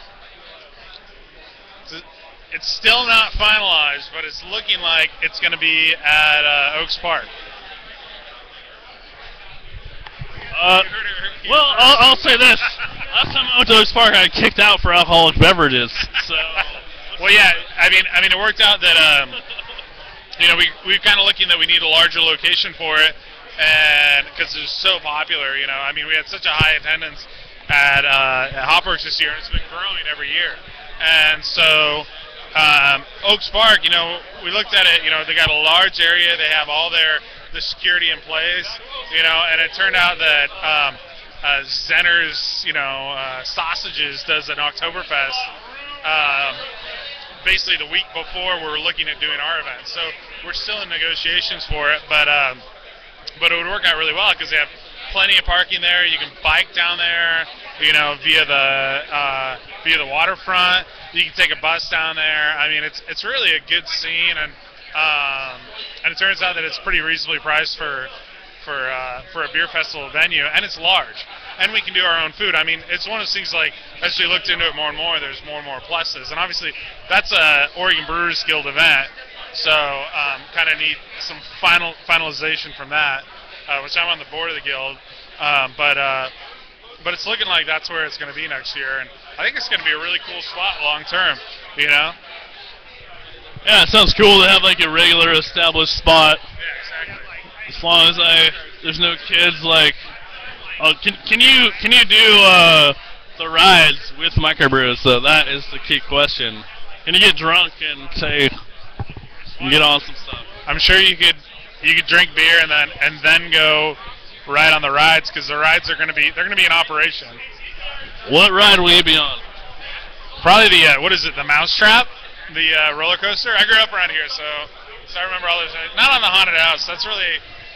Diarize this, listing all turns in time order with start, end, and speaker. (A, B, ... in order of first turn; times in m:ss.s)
0:01.9-0:07.3 A
0:10.5-0:10.9 B
0:10.6-0:12.3 A
0:11.4-0:17.2 B
0:17.2-0:19.4 A
0:20.4-0:45.5 A
0:46.0-0:46.6 A
0:47.4-0:52.6 A
0:53.4-1:26.3 A
1:27.0-1:32.2 A
1:33.6-1:36.4 B
1:36.6-1:37.3 A
1:37.7-1:40.0 B
1:40.8-1:48.5 B
1:49.6-1:50.4 B
1:50.6-1:57.4 A
1:58.3-1:59.4 B
2:00.4-2:07.4 A